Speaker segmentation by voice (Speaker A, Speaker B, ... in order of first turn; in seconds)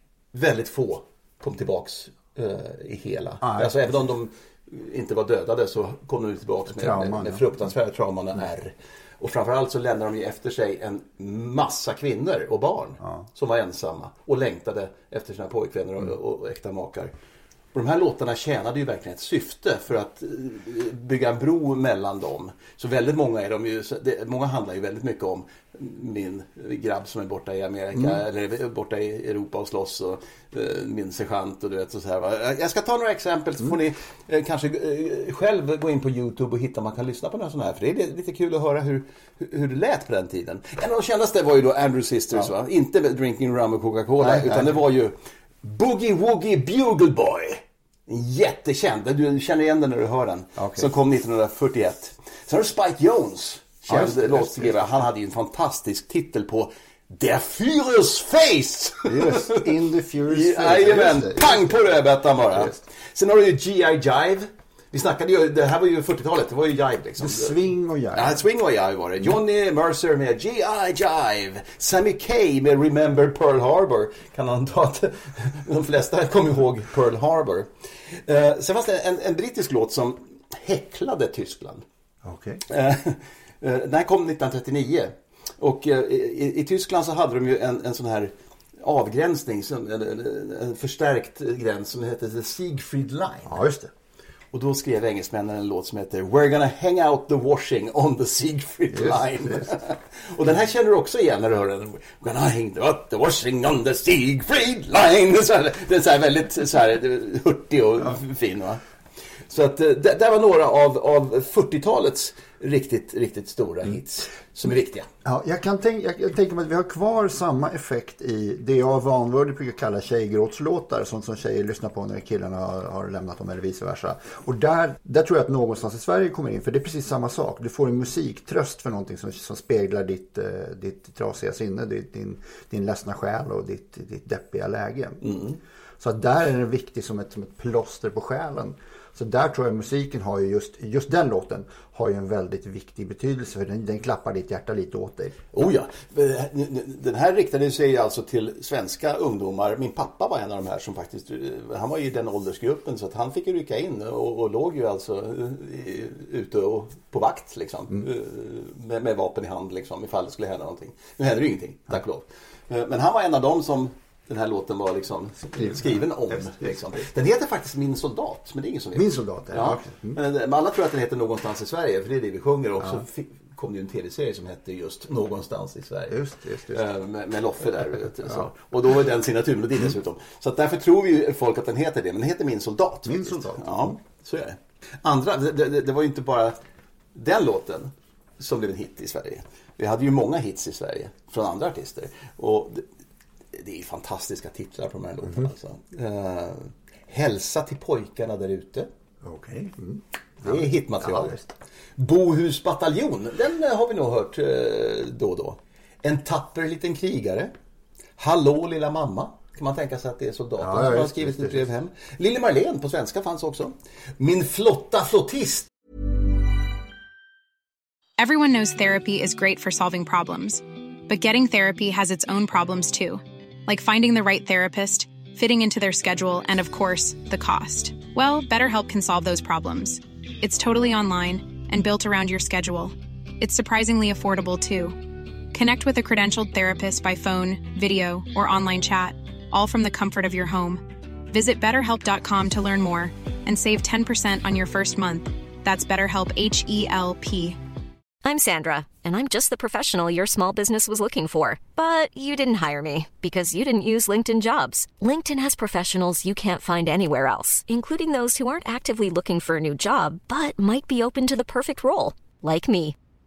Speaker A: 0.3-17.1, 17.7-59.6, 60.2-67.6, 68.1-81.8, 82.7-93.6, 94.5-108.8, 109.5-115.1, 135.2-135.6, 145.5-176.2, 176.7-186.6, 187.2-192.8, 193.5-198.9, 200.4-201.4, 202.0-207.5, 208.2-215.7
Speaker B: 3.4-3.7, 6.7-7.6, 44.2-44.8, 50.6-50.9, 53.9-55.0, 59.1-61.9, 67.2-68.4, 82.2-82.6, 93.5-93.9, 98.9-99.7, 115.2-135.2, 136.0-145.4, 165.5-166.6, 168.9-170.2, 176.1-176.9, 183.1-184.0, 199.2-201.5, 210.6-211.7
Speaker C: 218.2-235.0, 235.5-247.6
Speaker D: 248.2-263.0